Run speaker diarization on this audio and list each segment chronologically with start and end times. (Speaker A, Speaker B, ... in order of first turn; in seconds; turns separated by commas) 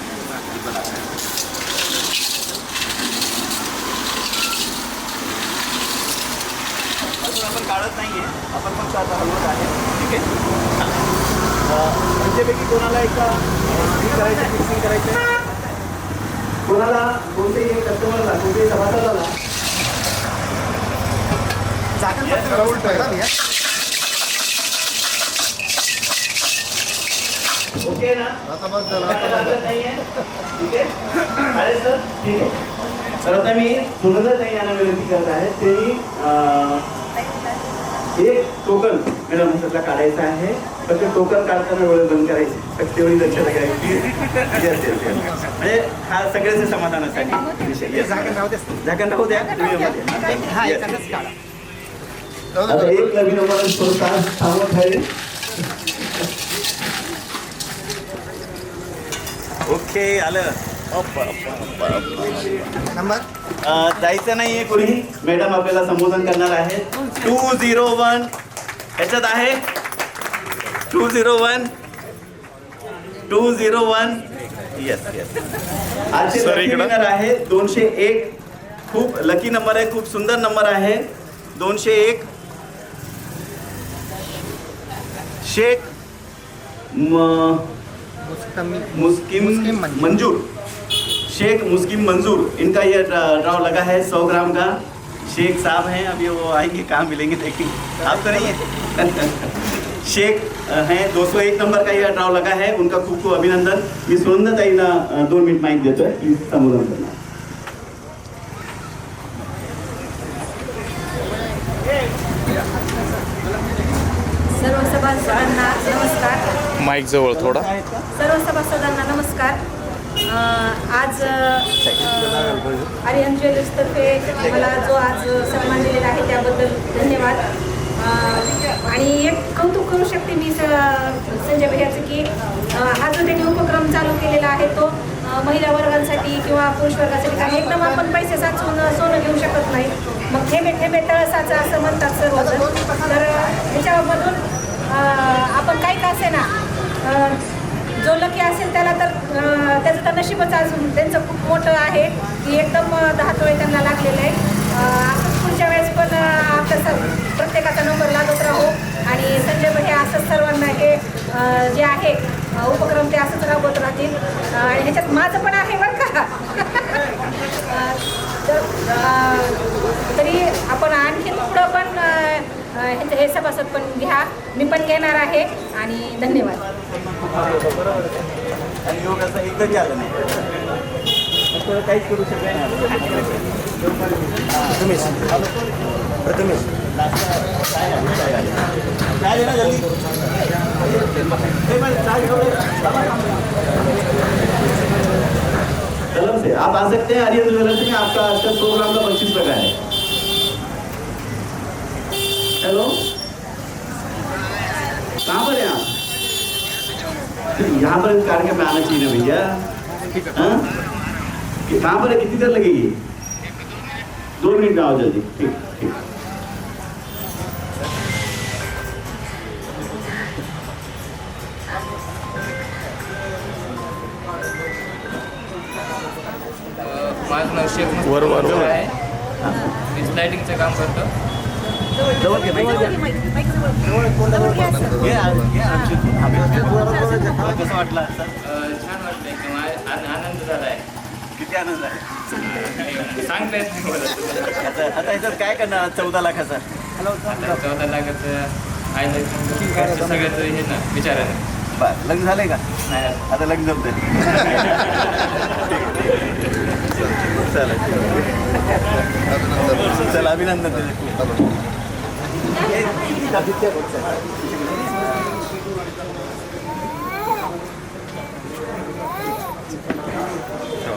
Speaker A: 0.2-1.1, Speaker A: 7.2-11.0, Speaker A: 11.6-15.4, Speaker A: 16.6-19.4, Speaker B: 22.0-23.3, Speaker A: 22.2-23.1, Speaker A: 27.8-32.6, Speaker A: 33.2-36.9, Speaker A: 38.1-51.2, Speaker B: 48.3-48.7, Speaker B: 50.5-51.3, Speaker A: 52.6-55.1, Speaker A: 59.7-62.9, Speaker B: 62.9-63.3, Speaker A: 63.6-68.3, Speaker A: 69.0-69.7, Speaker A: 70.9-71.7, Speaker A: 73.3-75.5, Speaker A: 76.1-82.3, Speaker C: 76.3-77.0, Speaker A: 85.4-85.9, Speaker A: 86.9-87.7, Speaker B: 88.3-88.9, Speaker A: 88.9-90.5, Speaker B: 89.5-90.0, Speaker A: 91.3-107.2, Speaker D: 114.5-116.5, Speaker C: 116.8-117.7, Speaker A: 117.3-118.0, Speaker D: 118.1-119.6, Speaker D: 120.2-147.4, Speaker D: 148.0-176.6, Speaker A: 176.6-180.6, Speaker A: 181.5-183.7, Speaker A: 184.5-185.7, Speaker A: 186.8-193.7, Speaker A: 196.1-199.8, Speaker A: 202.6-203.1, Speaker A: 205.2-206.0, Speaker A: 207.6-209.7, Speaker A: 210.3-210.7, Speaker A: 211.7-213.0, Speaker A: 214.4-216.0, Speaker E: 226.8-228.9, Speaker C: 228.1-228.8, Speaker A: 229.4-229.7, Speaker E: 229.8-231.1, Speaker A: 232.2-233.1, Speaker B: 234.3-234.8, Speaker A: 234.8-238.4, Speaker E: 238.4-240.8, Speaker A: 241.4-242.3, Speaker E: 242.4-244.7, Speaker A: 244.5-246.7, Speaker E: 247.1-251.4, Speaker A: 251.7-258.4, Speaker E: 252.8-253.3, Speaker A: 259.4-261.4, Speaker A: 262.5-264.8